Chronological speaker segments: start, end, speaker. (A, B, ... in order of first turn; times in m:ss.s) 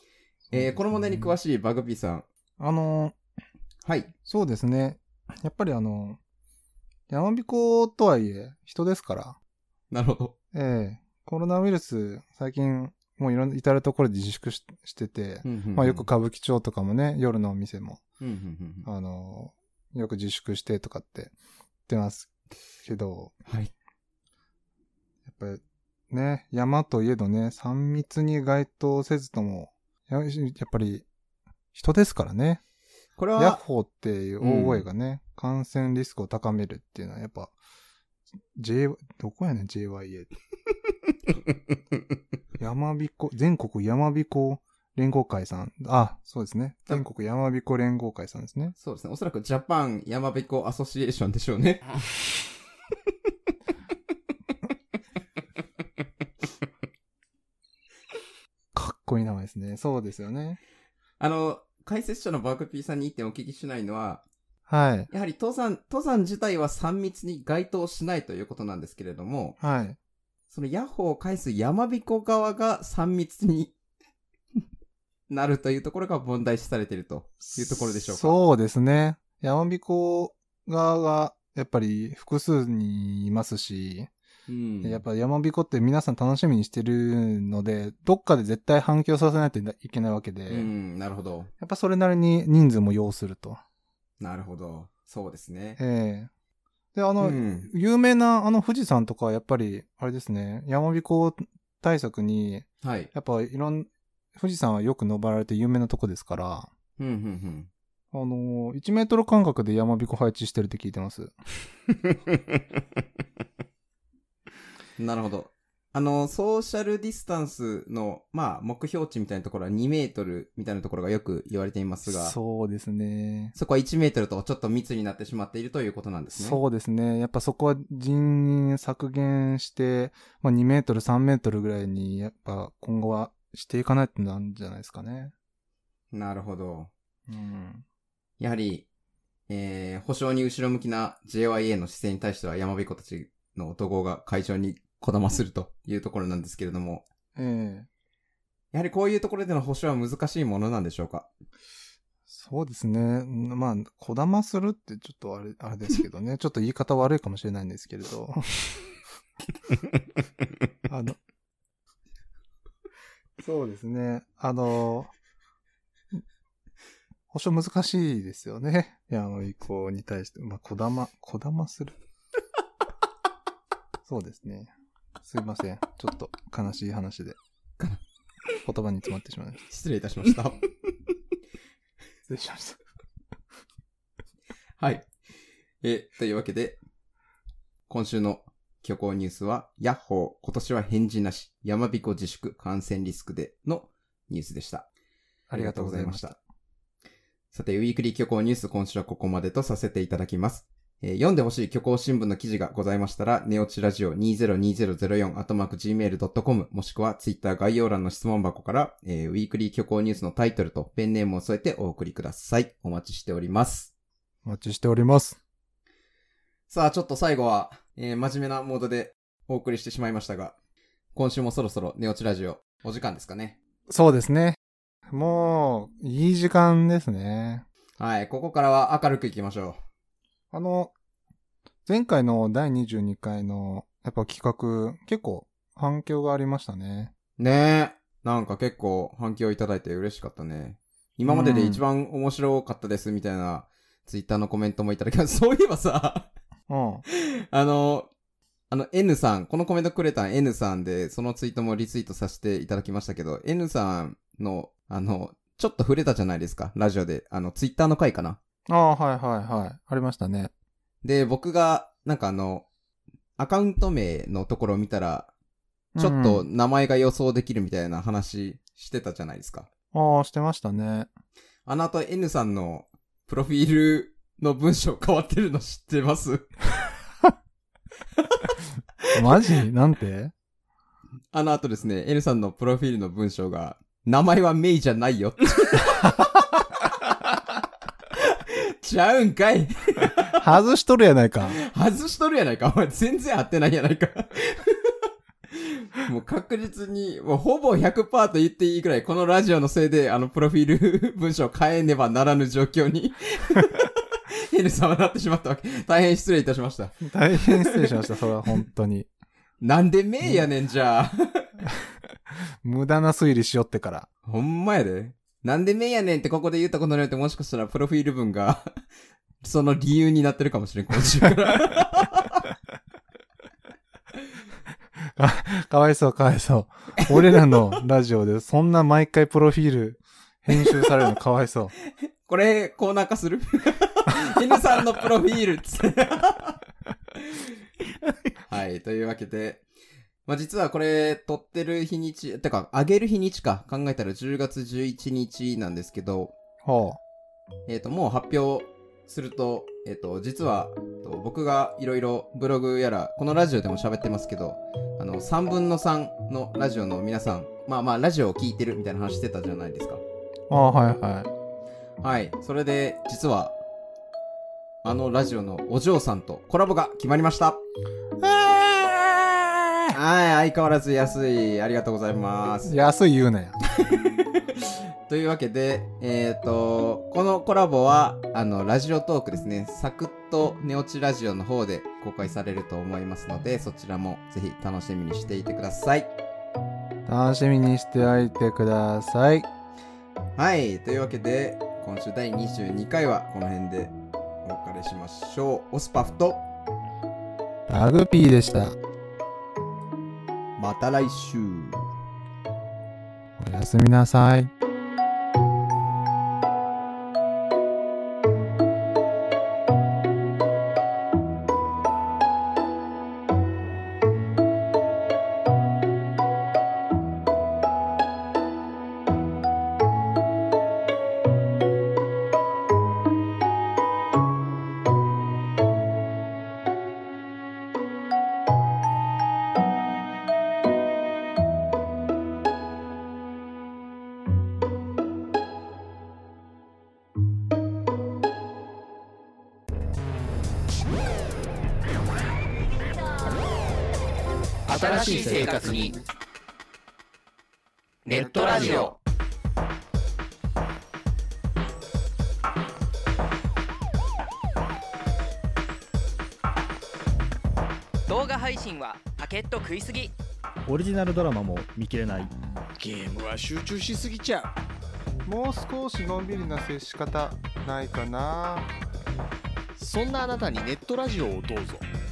0:00.5-0:01.4 A
0:00.5-0:02.3 B
0:02.6-0:03.2 A
0:03.8-0:04.1 B
0:04.3-0:06.2 A
0:07.1-0:09.4 A
0:09.9-0:10.4 B
0:10.5-0:18.0 A
0:15.4-0:16.1 B
0:18.2-0:18.9 B
0:18.9-0:21.3 A
0:21.9-0:22.3 A
0:22.8-0:23.3 A
0:23.5-0:23.7 B
0:25.3-0:31.1 A
0:31.7-0:32.6 A
0:33.2-0:33.6 B
0:33.4-0:37.5 A
0:34.4-0:34.9 B
0:38.6-0:40.3 A
0:42.6-0:48.7 A
0:48.8-0:51.8 B
0:58.7-1:00.6 A
1:01.2-1:04.2 B
1:04.7-1:05.1 A
1:05.1-1:09.6 B
1:09.6-1:10.0 A
1:10.5-1:13.7 B
1:15.3-1:18.4 B
1:17.4-1:24.1 A
1:24.5-1:25.0 B
1:24.8-1:30.7 A
1:30.5-1:31.5 B
1:31.6-1:33.6 A
1:34.2-1:35.8 B
1:35.8-1:36.3 A
1:37.0-1:46.7 A
1:37.2-1:37.7 B
1:42.8-1:43.1 B
1:47.0-1:47.7 B
1:48.1-1:51.3 A
1:55.0-2:02.4 B
2:02.1-2:03.6 A
2:03.6-2:06.6 B
2:06.3-2:15.3 A
2:16.1-2:16.9 B
2:17.3-2:17.8 A
2:18.4-2:18.9 B
2:19.5-2:27.1 B
2:27.4-2:27.9 A
2:28.7-2:31.3 B
2:32.3-2:38.8 A
2:40.9-2:41.2 A
2:43.4-2:45.1 A
2:47.3-2:52.0 A
2:54.1-2:54.7 A
2:55.2-2:57.4 A
2:58.6-2:59.6 A
2:59.7-3:00.6 B
3:02.3-3:02.8 A
3:04.8-3:05.1 B
3:05.8-3:06.8 B
3:07.9-3:14.9 B
3:15.5-3:16.3 A
3:15.5-3:16.4 B
3:17.5-3:33.9 B
3:34.4-3:35.4 A
3:36.7-3:40.6 B
3:41.1-3:43.6 B
3:43.9-3:44.6 A
3:45.1-3:47.6 A
3:48.0-3:49.8 B
3:50.5-3:50.9 A
3:51.9-3:57.1 A
3:57.4-4:06.3 B
4:01.3-4:01.8 A
4:06.7-4:07.0 A
4:07.1-4:08.1 B
4:08.7-4:18.4 B
4:18.7-4:20.5 A
4:21.0-4:22.7 B
4:23.4-4:25.3 B
4:26.0-4:26.5 A
4:26.0-4:29.7 B
4:29.9-4:31.1 A
4:31.7-4:36.5 B
4:39.1-4:40.3 A
4:41.3-4:46.9 B
4:48.2-4:50.4 B
4:50.3-4:51.6 A
4:51.4-4:54.9 B
4:55.6-5:08.1 B
5:07.0-5:09.1 A
5:09.6-5:11.5 B
5:12.6-5:14.1 A
5:14.3-5:18.7 B
5:19.4-5:22.4 B
5:25.2-5:31.7 A
5:32.2-5:36.6 B
5:38.4-5:39.6 B
5:40.3-5:46.3 B
5:46.6-5:47.0 A
5:47.7-6:00.0 B
6:00.5-6:01.3 A
6:02.0-6:03.6 B
6:04.8-6:07.6 B
6:08.2-6:12.8 B
6:12.6-6:13.6 A
6:13.7-6:26.1 B
6:27.1-6:29.5 A
6:30.4-6:36.5 B
6:37.7-6:38.8 A
6:40.6-6:41.9 B
6:43.4-6:44.5 A
7:24.7-7:26.0 C
7:24.7-7:25.9 D
7:25.0-7:25.8 E
7:28.1-7:28.9 C
7:28.1-7:28.9 D
7:28.2-7:28.8 E
7:38.1-7:40.1 D
7:40.7-7:42.3 E
7:42.8-7:44.5 C
7:45.3-7:48.7 A
7:49.8-7:51.8 C